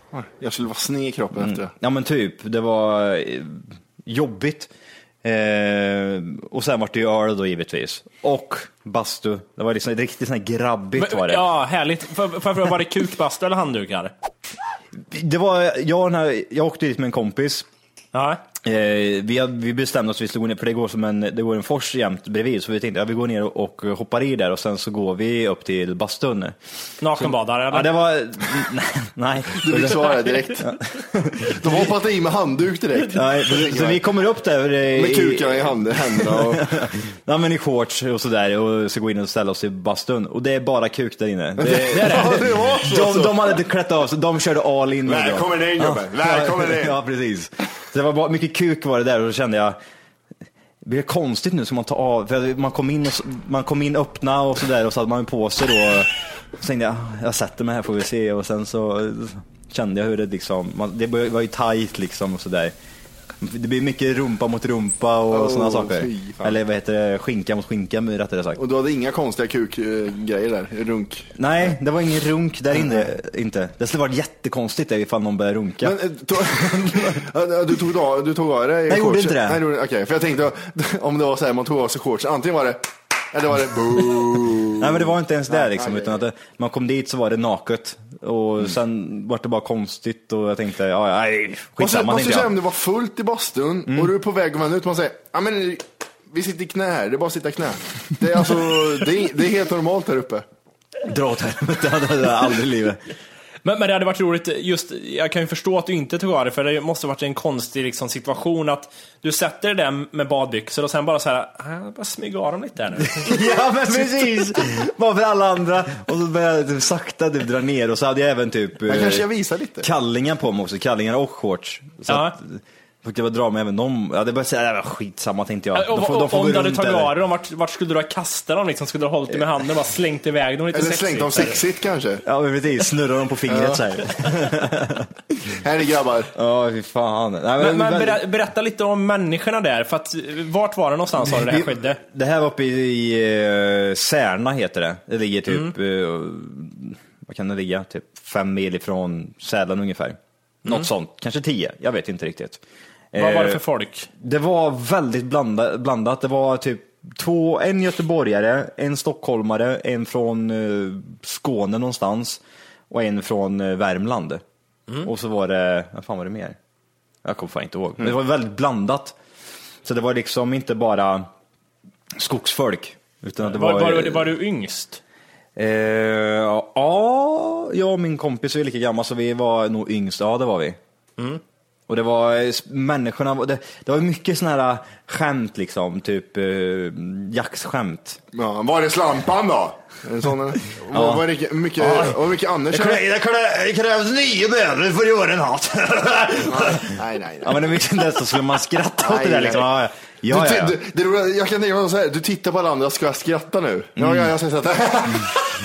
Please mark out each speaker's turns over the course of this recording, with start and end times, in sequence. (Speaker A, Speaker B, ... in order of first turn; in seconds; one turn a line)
Speaker A: 0.1-1.7
Speaker B: 1.4-4.7
Speaker B: 5.2-11.4
Speaker C: 11.0-14.1
Speaker B: 15.1-17.7
Speaker C: 18.1-18.4
Speaker B: 18.6-26.6
Speaker C: 27.0-27.9
Speaker B: 27.2-31.5
Speaker A: 29.6-30.7
Speaker A: 31.4-34.0
Speaker B: 33.1-49.8
Speaker A: 34.9-36.8
Speaker A: 41.6-43.5
Speaker C: 41.9-42.4
Speaker A: 45.0-47.0
Speaker B: 50.8-62.7
Speaker B: 63.4-68.6
Speaker A: 65.3-66.5
Speaker A: 68.6-71.3
Speaker B: 71.3-76.0
Speaker A: 72.7-73.0
Speaker A: 75.8-86.2
Speaker B: 76.6-77.2
Speaker B: 78.9-79.6
Speaker B: 84.8-92.5
Speaker A: 91.8-100.4
Speaker B: 93.9-94.1
Speaker B: 101.0-103.0
Speaker C: 103.6-113.3
Speaker B: 113.2-119.2
Speaker A: 118.9-119.9
Speaker B: 119.8-127.1
Speaker C: 122.1-122.3
Speaker C: 125.7-131.6
Speaker A: 130.7-132.2
Speaker B: 132.2-135.1
Speaker A: 133.5-133.8
Speaker A: 135.6-136.3
Speaker B: 136.3-138.2
Speaker C: 137.6-142.0
Speaker B: 141.2-152.6
Speaker B: 153.1-153.6
Speaker C: 153.1-154.1
Speaker B: 154.2-164.4
Speaker B: 165.0-166.6
Speaker B: 167.2-169.1
Speaker B: 169.8-171.3
Speaker B: 172.2-174.3
Speaker C: 173.4-175.0
Speaker B: 175.6-180.8
Speaker B: 181.9-188.2
Speaker A: 188.3-193.0
Speaker B: 190.9-191.2
Speaker B: 191.8-200.8
Speaker A: 196.4-197.6
Speaker A: 199.0-199.7
Speaker A: 200.3-205.5
Speaker B: 204.0-204.3